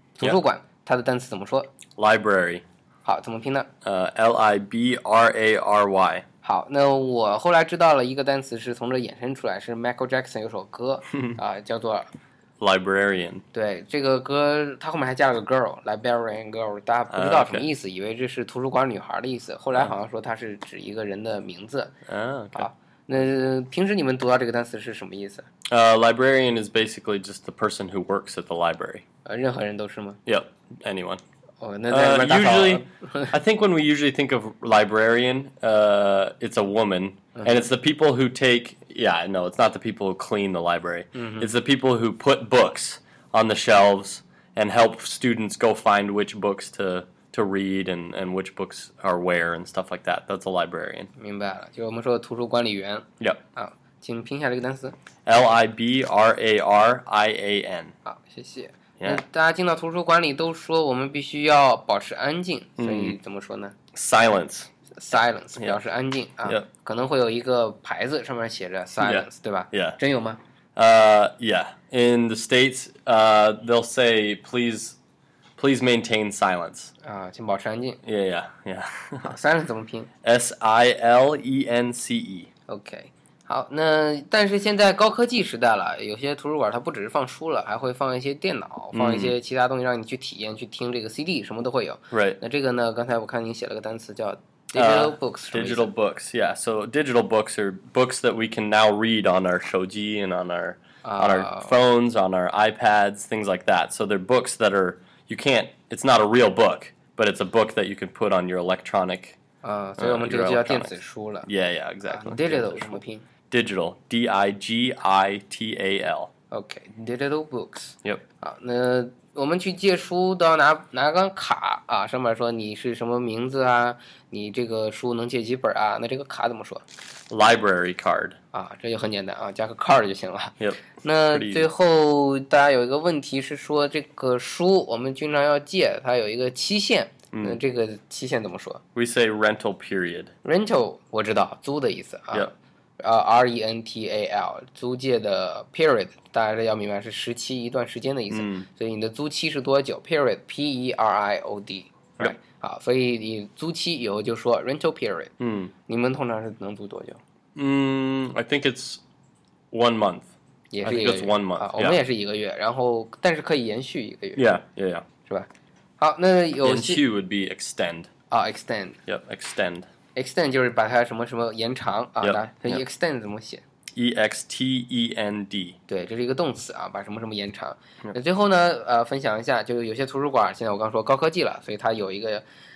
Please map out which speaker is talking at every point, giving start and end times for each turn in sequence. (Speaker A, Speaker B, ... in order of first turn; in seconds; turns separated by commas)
Speaker A: 0.2-1.7, Speaker B: 2.0-2.6, Speaker A: 3.0-3.7, Speaker B: 3.8-6.2, Speaker A: 6.4-12.1, Speaker B: 12.6-13.4, Speaker A: 13.5-21.9, Speaker B: 17.1-17.6, Speaker B: 22.1-22.7, Speaker A: 22.5-25.5, Speaker B: 25.7-29.0, Speaker A: 29.2-30.2, Speaker B: 30.2-31.2, Speaker A: 31.6-33.4, Speaker B: 31.9-51.1, Speaker A: 37.4-37.6, Speaker A: 41.1-41.5, Speaker A: 51.1-54.9, Speaker B: 55.2-57.9, Speaker A: 58.0-63.7, Speaker B: 62.8-63.1, Speaker B: 63.9-64.7, Speaker A: 65.0-70.4, Speaker B: 69.0-70.0, Speaker B: 70.8-75.0, Speaker B: 75.6-76.9, Speaker A: 77.0-78.0, Speaker B: 78.0-79.3, Speaker A: 79.2-80.1, Speaker B: 80.2-82.5, Speaker A: 82.7-95.9, Speaker B: 88.9-89.3, Speaker B: 92.1-92.4, Speaker B: 94.7-109.4, Speaker A: 101.0-101.7, Speaker A: 109.6-111.5, Speaker B: 110.0-110.9, Speaker B: 111.4-116.3, Speaker A: 112.1-113.2, Speaker A: 116.5-126.8, Speaker B: 127.3-128.4, Speaker A: 128.5-138.8, Speaker B: 130.6-131.7, Speaker B: 137.3-137.6, Speaker B: 138.9-140.3, Speaker A: 140.4-155.3, Speaker B: 148.3-148.7, Speaker B: 155.4-155.7, Speaker A: 155.9-157.2, Speaker B: 157.6-159.0, Speaker B: 159.7-160.3, Speaker A: 160.7-164.5, Speaker B: 160.8-162.0, Speaker B: 164.3-165.1, Speaker A: 166.0-167.0, Speaker B: 166.6-168.1, Speaker A: 168.3-169.0, Speaker B: 169.1-169.9, Speaker A: 170.1-173.6, Speaker B: 172.2-172.8, Speaker B: 174.0-175.8, Speaker A: 175.9-182.4